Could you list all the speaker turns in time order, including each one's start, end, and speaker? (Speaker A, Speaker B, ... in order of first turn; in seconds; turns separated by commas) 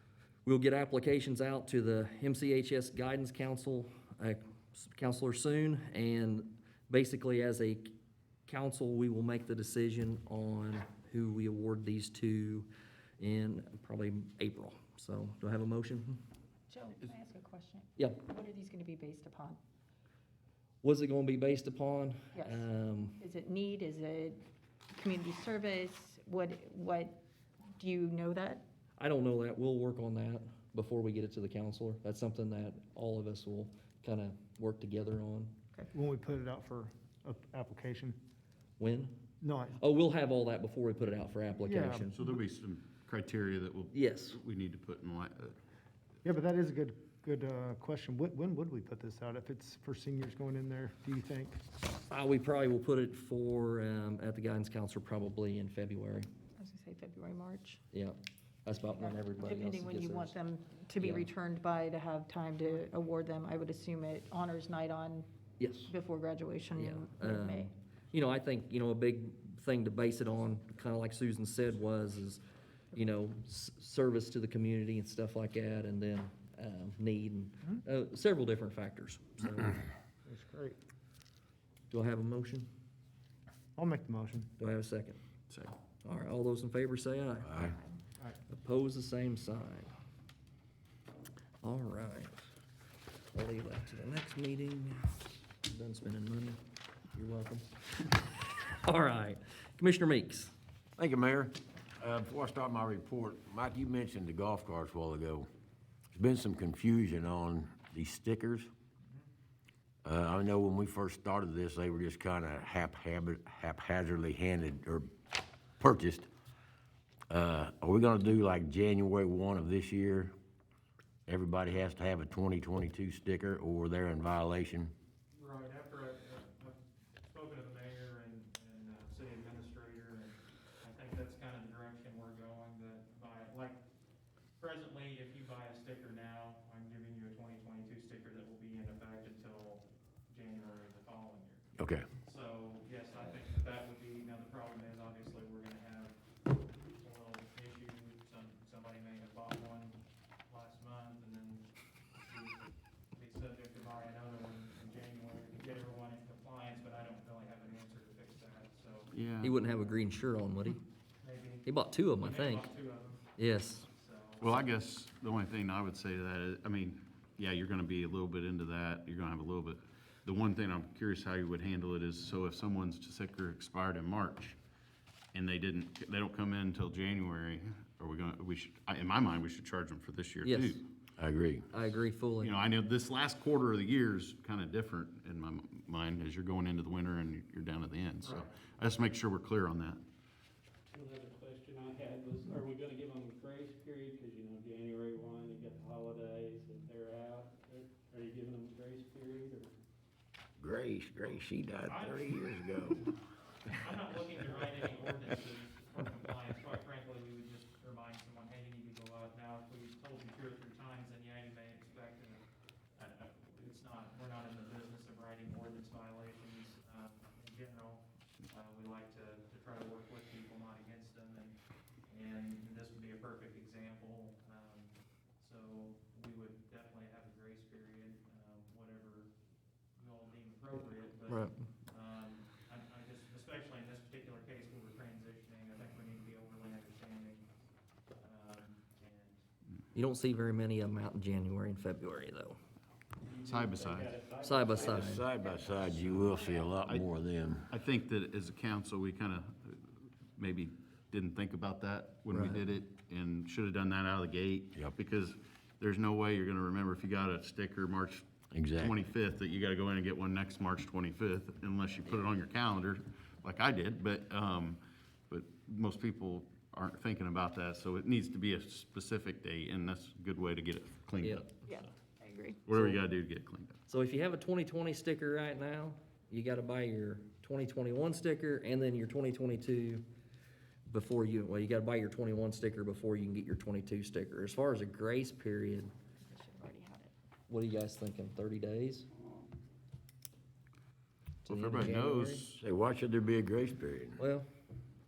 Speaker A: 0.4-7.9, Speaker A: 8.5-16.2, Speaker B: 16.7-19.6, Speaker A: 17.9-18.2, Speaker A: 20.8-23.2, Speaker B: 22.3-27.2, Speaker B: 27.8-28.7, Speaker A: 29.0-35.6, Speaker C: 35.9-38.2, Speaker A: 38.8-39.2, Speaker C: 39.4-39.8, Speaker A: 39.8-42.2, Speaker C: 41.6-42.1, Speaker D: 42.1-45.5, Speaker A: 43.9-44.4, Speaker C: 46.2-51.6, Speaker A: 52.0-56.3, Speaker B: 56.6-57.8, Speaker A: 57.9-60.4, Speaker B: 58.8-65.3, Speaker A: 61.0-61.3, Speaker A: 65.6-65.9, Speaker B: 65.9-67.7, Speaker A: 66.7-72.4, Speaker A: 72.9-79.8, Speaker C: 80.2-80.8, Speaker A: 81.9-82.7, Speaker C: 83.8-84.5, Speaker A: 84.6-85.2, Speaker D: 85.5-85.7, Speaker A: 86.0-87.7, Speaker E: 87.5-87.7, Speaker A: 88.5-89.9, Speaker A: 91.6-92.3, Speaker A: 93.3-96.6, Speaker A: 97.1-100.5, Speaker E: 101.0-105.5, Speaker E: 106.1-108.7, Speaker E: 110.0-115.1, Speaker E: 115.8-116.3, Speaker E: 117.3-120.3, Speaker E: 121.3-124.9, Speaker F: 125.3-133.8, Speaker F: 134.6-146.2, Speaker E: 141.8-142.1, Speaker F: 146.9-152.6, Speaker F: 153.1-159.1, Speaker D: 159.1-159.5, Speaker A: 159.4-160.8, Speaker F: 161.2-164.8, Speaker A: 161.7-162.7, Speaker A: 163.4-163.9, Speaker D: 164.4-174.6, Speaker D: 175.3-180.8, Speaker A: 180.4-180.8, Speaker E: 181.2-181.6, Speaker A: 181.7-182.5, Speaker D: 182.4-190.0, Speaker F: 188.2-188.6, Speaker G: 190.9-199.7, Speaker E: 200.6-203.1, Speaker F: 201.8-202.5, Speaker F: 203.7-212.4, Speaker F: 212.9-221.6, Speaker F: 222.1-229.3, Speaker F: 230.0-237.5, Speaker A: 231.3-231.5, Speaker F: 238.1-239.4, Speaker A: 239.9-242.6, Speaker G: 243.2-246.7, Speaker D: 243.4-244.1, Speaker A: 244.4-245.2, Speaker E: 244.8-247.7, Speaker D: 247.7-271.5, Speaker A: 252.3-252.6, Speaker E: 258.5-258.9, Speaker A: 271.2-271.5, Speaker B: 271.6-272.6, Speaker D: 272.7-273.8, Speaker A: 273.9-280.1, Speaker A: 280.9-285.9, Speaker B: 286.2-287.1, Speaker A: 287.5-289.1, Speaker A: 291.4-292.5, Speaker D: 291.4-292.6, Speaker E: 292.6-294.2, Speaker A: 294.2-294.4